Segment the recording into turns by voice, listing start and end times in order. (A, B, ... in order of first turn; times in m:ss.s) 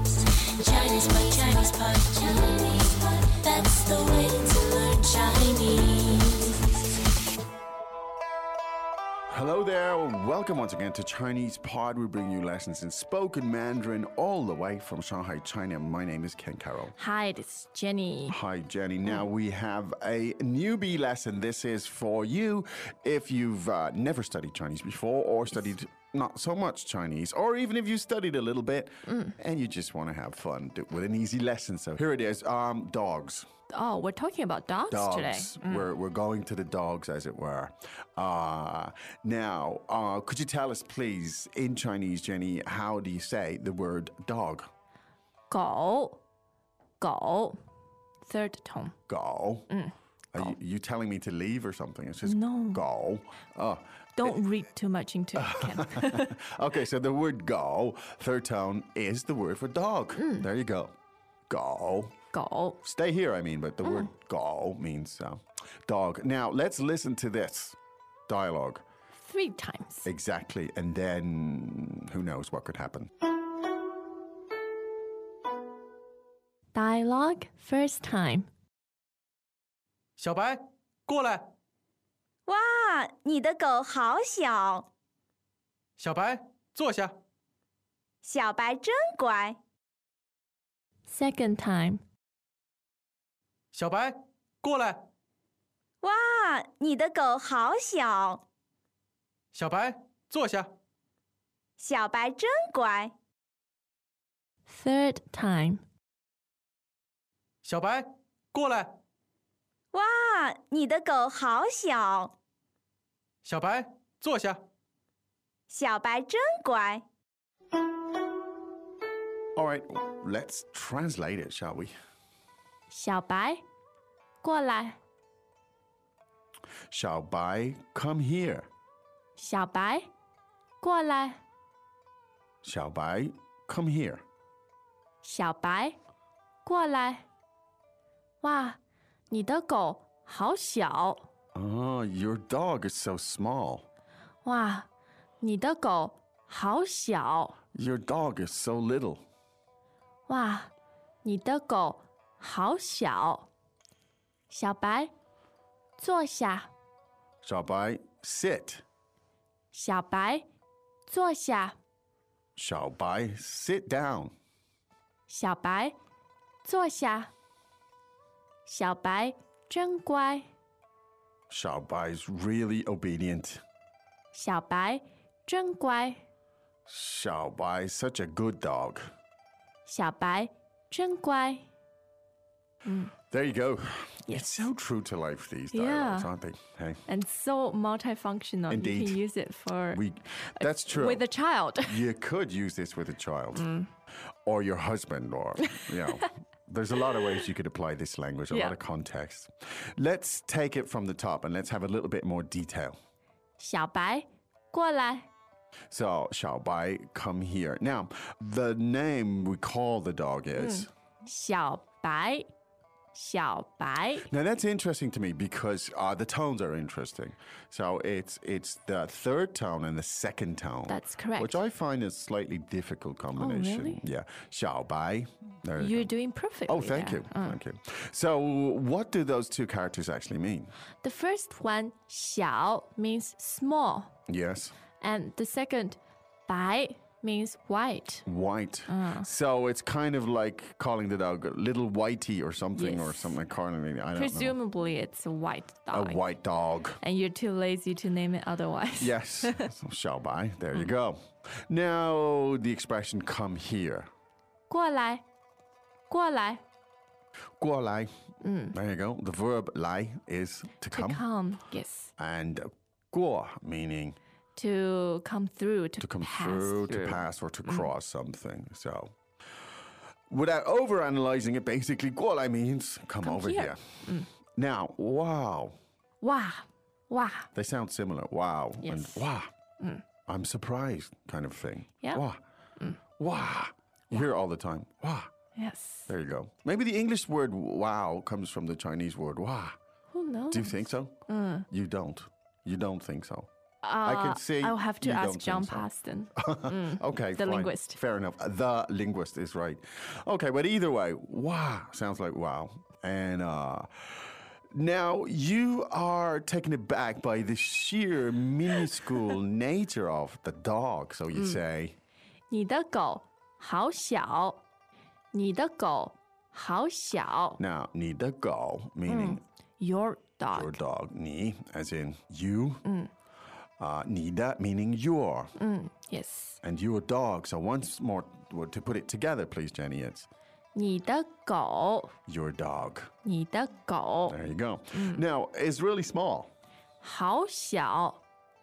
0:00.6-0:06.5 A
0:09.3-0:16.9 B
0:17.0-0:18.4 C
0:18.3-0:33.5 B
0:29.1-0:29.4 C
0:33.7-0:35.9 C
0:34.9-0:44.7 B
0:45.5-0:46.2 C
0:47.0-0:47.6 C
0:48.2-0:49.0 C
0:49.1-0:49.7 B
0:49.7-0:50.5 C
0:50.3-0:54.4 B
0:52.2-0:52.8 C
0:54.2-0:56.3 C
0:55.4-1:00.9 B
1:00.2-1:00.5 C
1:01.5-1:02.1 B
1:02.3-1:02.8 C
1:02.8-1:07.8 B
1:03.8-1:04.1 C
1:08.3-1:08.8 B
1:09.1-1:10.1 C
1:10.0-1:13.1 B
1:16.7-1:18.5 C
1:20.2-1:21.4 D
1:22.5-1:24.9 E
1:26.0-1:27.1 D
1:28.2-1:29.6 E
1:31.1-1:32.0 C
1:33.7-1:35.0 D
1:36.0-1:38.4 E
1:39.5-1:40.7 D
1:41.8-1:43.1 E
1:44.7-1:45.8 C
1:47.6-1:48.9 D
1:49.9-1:52.3 E
1:53.4-1:54.6 D
1:55.7-1:57.0 E
1:59.6-2:01.9 B
2:02.9-2:03.6 C
2:04.4-2:05.0 C
2:06.9-2:08.7 B
2:09.4-2:10.1 C
2:10.8-2:11.4 C
2:12.6-2:14.2 B
2:15.2-2:16.0 C
2:16.6-2:17.2 C
2:18.4-2:18.8 C
2:19.3-2:21.3 C
2:21.5-2:23.9 B
2:24.4-2:24.9 C
2:25.4-2:27.6 C
2:27.7-2:29.2 B
2:30.3-2:30.7 C
2:31.2-2:33.5 C
2:34.5-2:35.1 C
2:36.0-2:36.7 C
2:37.4-2:38.8 B
2:39.7-2:40.4 C
2:41.1-2:41.8 C
2:42.6-2:44.3 B
2:45.3-2:46.0 C
2:46.6-2:47.3 C
2:48.7-2:50.5 C
2:51.5-2:53.6 B
2:54.3-2:56.2 C
2:56.9-2:59.1 B
2:59.9-3:01.7 C
3:02.8-3:03.1 C
3:03.3-3:07.0 B
3:04.3-3:04.7 C
3:05.7-3:06.3 C
3:07.1-3:12.1 C
3:08.7-3:09.2 B
3:09.9-3:11.3 B
3:11.8-3:13.7 B
3:13.6-3:13.9 C
3:14.5-3:23.0 B
3:18.5-3:18.8 C
3:23.6-3:25.3 C
3:25.9-3:30.9 B
3:30.6-3:32.5 C
3:33.1-3:34.3 C
3:34.3-3:46.1 B
3:40.9-3:41.6 C
3:43.4-3:44.0 C
3:45.8-3:47.6 C
3:46.7-3:50.7 B
3:51.0-3:54.1 C
3:54.3-3:54.8 B
3:55.0-3:58.3 C
3:58.3-4:04.6 B
3:58.9-3:59.3 C
4:02.8-4:03.4 C
4:04.2-4:06.2 C
4:05.9-4:07.0 B
4:07.0-4:09.7 C
4:09.0-4:14.1 B
4:14.7-4:15.2 C
4:16.1-4:16.6 C
4:17.6-4:18.1 B
4:18.4-4:18.8 C
4:18.7-4:21.2 B
4:20.9-4:22.1 C
4:22.2-4:24.2 B
4:24.6-4:27.9 C
4:26.0-4:29.1 B
4:30.3-4:33.9 B
4:33.2-4:34.3 C
4:34.6-4:35.8 B
4:36.2-4:37.5 C
4:37.5-4:39.5 B
4:38.8-4:39.3 C
4:40.3-4:42.4 B
4:43.2-4:45.3 B
4:45.6-4:46.1 C
4:46.1-4:49.8 B
4:50.1-4:51.7 C
4:50.5-4:51.2 B
4:51.7-4:53.5 B
4:53.8-4:58.0 C
4:54.0-5:04.2 B
5:04.7-5:12.0 B
5:11.3-5:11.6 C
5:12.5-5:14.6 C
5:15.3-5:17.6 C
5:17.6-5:19.4 B
5:19.1-5:20.8 C
5:20.5-5:22.8 B
5:22.8-5:23.1 C
5:23.8-5:25.5 B
5:25.6-5:26.6 C
5:26.6-5:30.3 B
5:30.7-5:32.1 C
5:32.3-5:33.1 B
5:33.2-5:34.4 C
5:34.3-5:36.5 B
5:34.9-5:35.2 C
5:37.0-5:38.2 C